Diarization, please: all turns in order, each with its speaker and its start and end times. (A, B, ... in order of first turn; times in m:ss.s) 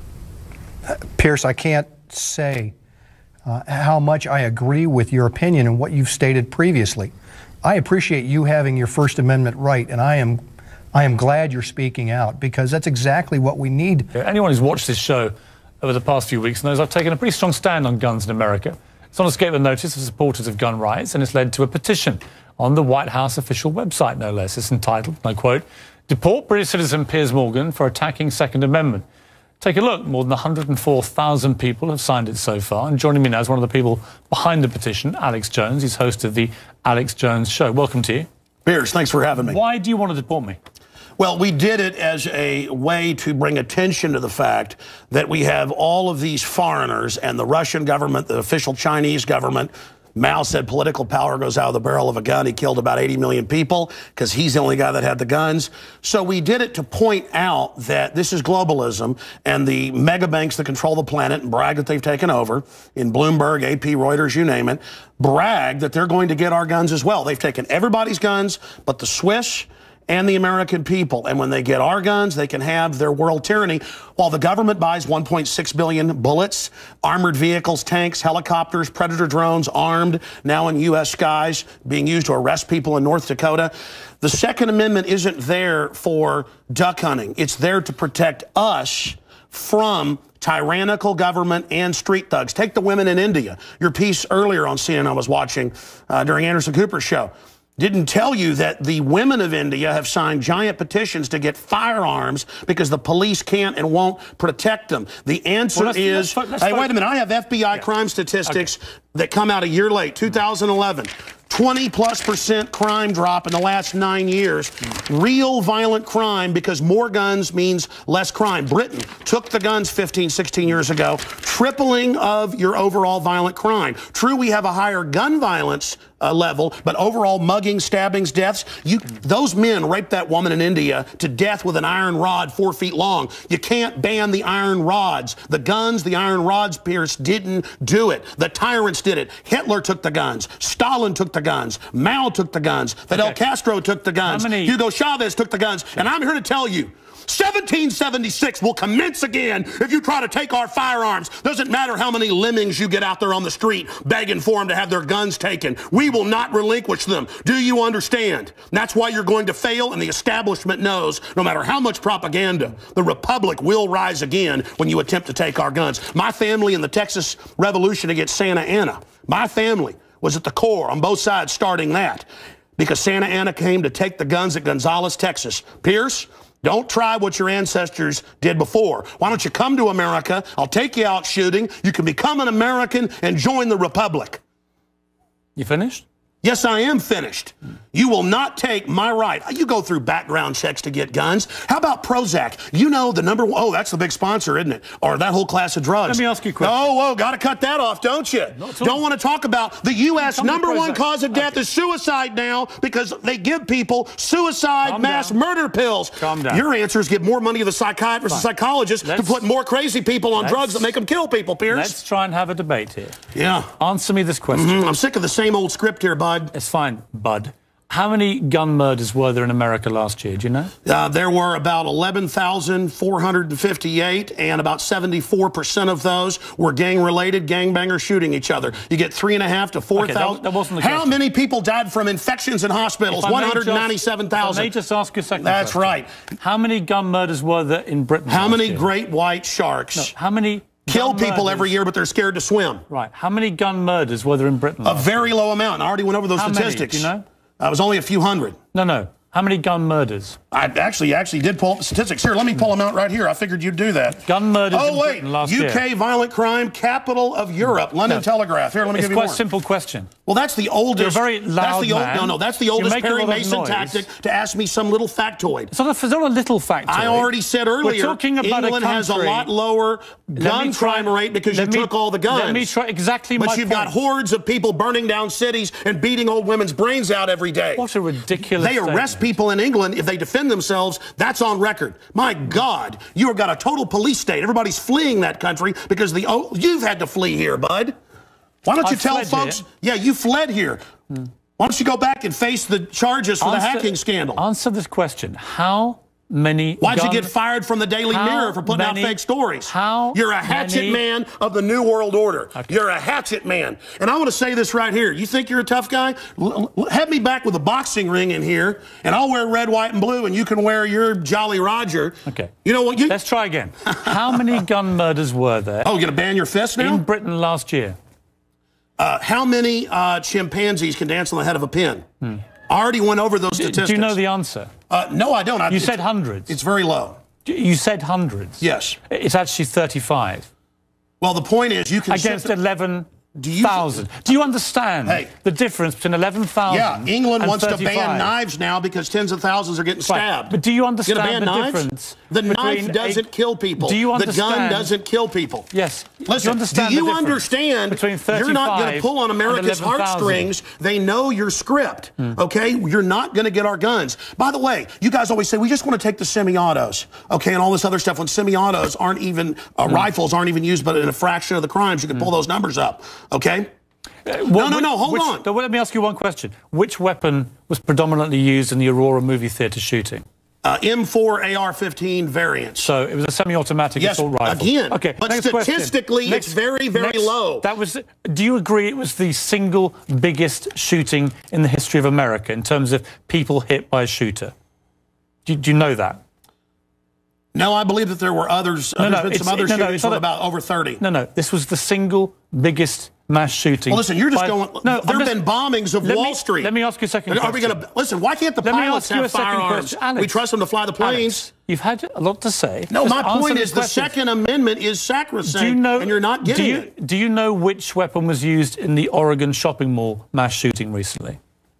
0:01.1-0:02.7 A
0:03.4-0:07.1 A
0:07.6-0:10.4 A
0:10.9-0:14.1 A
0:14.1-0:29.0 B
0:29.6-0:38.3 B
0:38.6-0:39.6 C
0:39.4-0:40.6 B
0:41.2-3:04.4 C
1:45.7-1:46.9 B
2:23.1-2:23.4 B
2:24.2-2:24.8 B
3:05.6-3:06.0 B
3:06.4-3:32.0 C
3:16.0-3:16.8 B
3:18.6-3:19.0 B
3:20.2-3:21.6 B
3:24.8-3:25.4 B
3:26.2-3:26.6 B
3:29.0-3:29.4 B
3:30.4-3:30.9 B
3:31.7-3:33.2 B
3:33.3-3:33.7 C
3:33.8-3:34.8 B
3:34.5-3:36.5 C
3:36.5-3:40.7 B
3:40.8-3:54.7 C
3:50.0-3:51.2 B
3:53.1-3:58.9 B
3:55.4-3:56.1 C
3:58.3-4:00.1 C
3:59.9-4:01.7 B
4:00.9-4:02.8 C
4:02.9-4:05.3 B
4:04.8-4:08.6 C
4:06.4-4:07.2 B
4:08.7-4:10.4 B
4:10.5-4:19.4 C
4:14.2-4:15.8 B
4:18.9-4:20.1 B
4:20.2-4:25.7 C
4:21.0-4:24.0 B
4:25.7-4:27.3 B
4:26.9-4:32.7 C
4:27.8-4:29.5 B
4:30.4-4:33.9 B
4:33.4-4:37.8 C
4:37.8-4:39.3 B
4:38.5-4:47.9 C
4:48.6-4:50.8 C
4:48.8-4:49.6 B
4:51.6-4:54.4 C
4:53.4-4:57.3 B
4:56.8-5:13.2 C
4:58.1-5:01.0 B
5:12.2-5:12.5 B
5:13.1-5:15.9 B
5:14.0-5:14.6 C
5:15.8-5:17.0 C
5:16.8-5:18.0 B
5:19.0-5:22.0 C
5:22.7-5:24.2 C
5:23.6-5:24.7 B
5:24.9-5:27.2 C
5:25.7-5:26.5 B
5:27.4-5:30.5 B
5:28.6-5:29.0 C
5:31.2-5:32.5 C
5:32.1-5:33.1 B
5:33.3-5:34.1 C
5:33.6-5:38.3 B
5:36.7-5:45.7 C
5:40.0-5:44.9 B
5:45.7-5:50.5 B
5:46.2-6:03.7 C
6:04.2-6:10.2 B
6:04.5-6:05.4 C
6:10.6-6:12.9 C
6:12.8-6:24.5 B
6:14.0-6:17.6 C
6:25.4-6:26.2 B
6:27.5-6:31.0 C
6:29.0-6:30.2 B
6:31.0-6:35.4 B
6:33.9-6:36.7 C
6:36.0-6:37.8 B
6:37.3-6:41.4 C
6:38.6-6:40.4 B
6:41.0-6:44.1 B
6:42.9-6:46.9 C
6:45.4-6:51.4 B